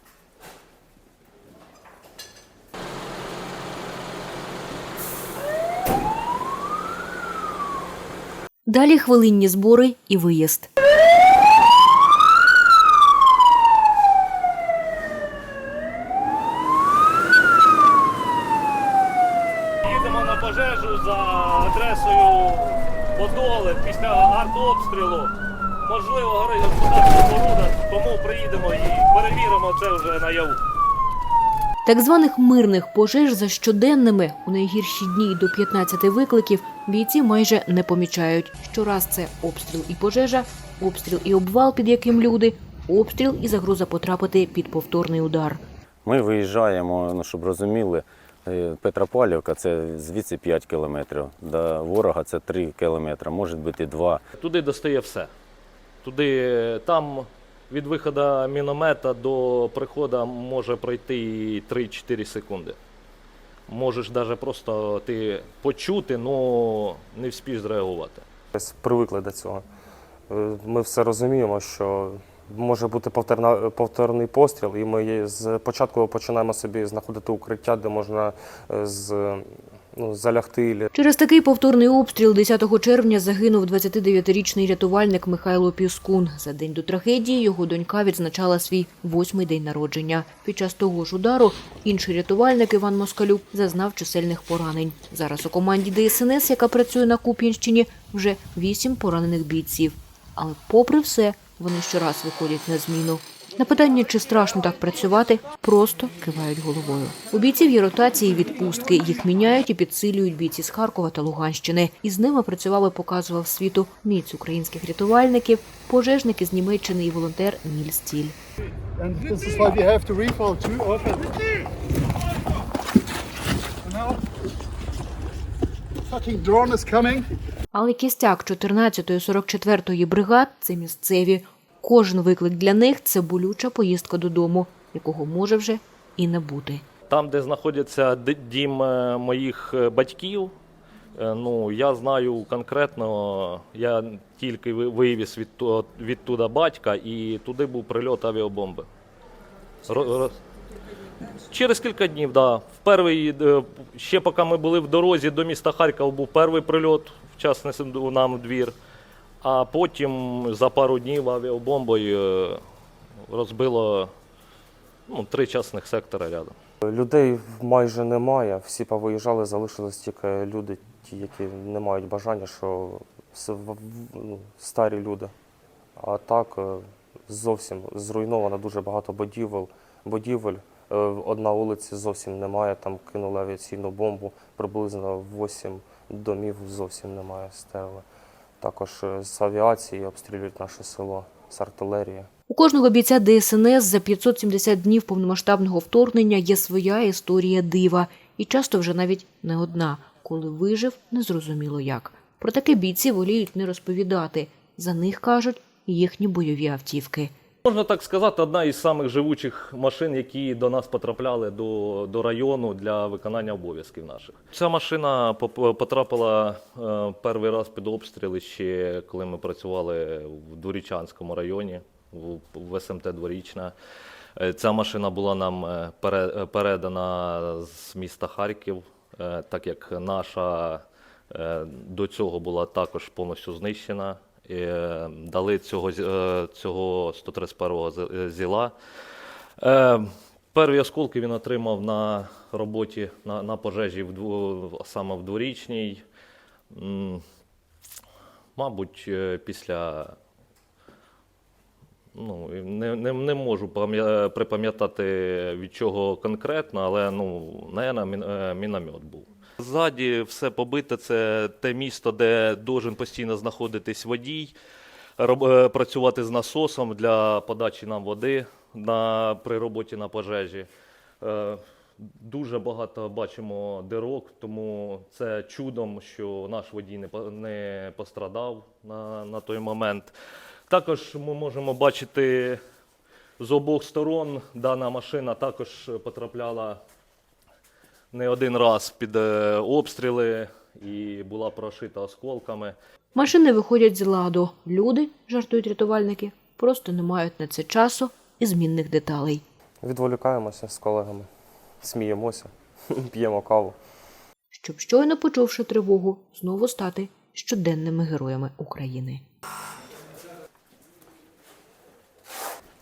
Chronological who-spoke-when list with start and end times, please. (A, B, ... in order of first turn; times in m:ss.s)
0:08.6-0:10.7 A
0:19.8-0:30.6 B
0:31.8-0:45.6 A
0:46.0-0:54.2 C
0:54.4-0:55.3 B
0:56.0-1:02.8 B
1:03.7-1:08.2 B
1:08.5-1:09.6 D
1:10.3-1:20.9 D
1:20.9-1:58.4 A
1:59.0-2:01.6 E
2:03.8-2:04.2 E
2:06.0-2:07.3 E
2:07.7-2:16.8 A
2:17.1-2:20.5 B
2:21.1-2:28.9 B
2:29.9-2:30.4 B
2:31.5-2:38.7 B
2:39.4-2:42.6 B
2:43.3-2:44.1 B
2:45.1-2:46.5 B
2:46.8-2:55.3 D
2:56.0-3:08.0 D
3:08.6-3:12.3 D
3:12.5-3:27.3 A
3:27.6-3:43.7 B
3:44.4-3:58.7 B
3:59.6-4:06.0 B
4:06.7-4:07.2 B
4:08.6-4:10.1 B
4:12.1-4:24.5 B
4:25.2-4:30.7 B
4:31.2-4:40.1 B
4:40.7-4:42.6 B
4:43.4-4:46.8 B
4:48.1-4:52.8 B
4:53.1-4:59.4 A
4:59.8-5:01.3 D
5:01.8-5:03.8 D
5:04.5-5:09.2 A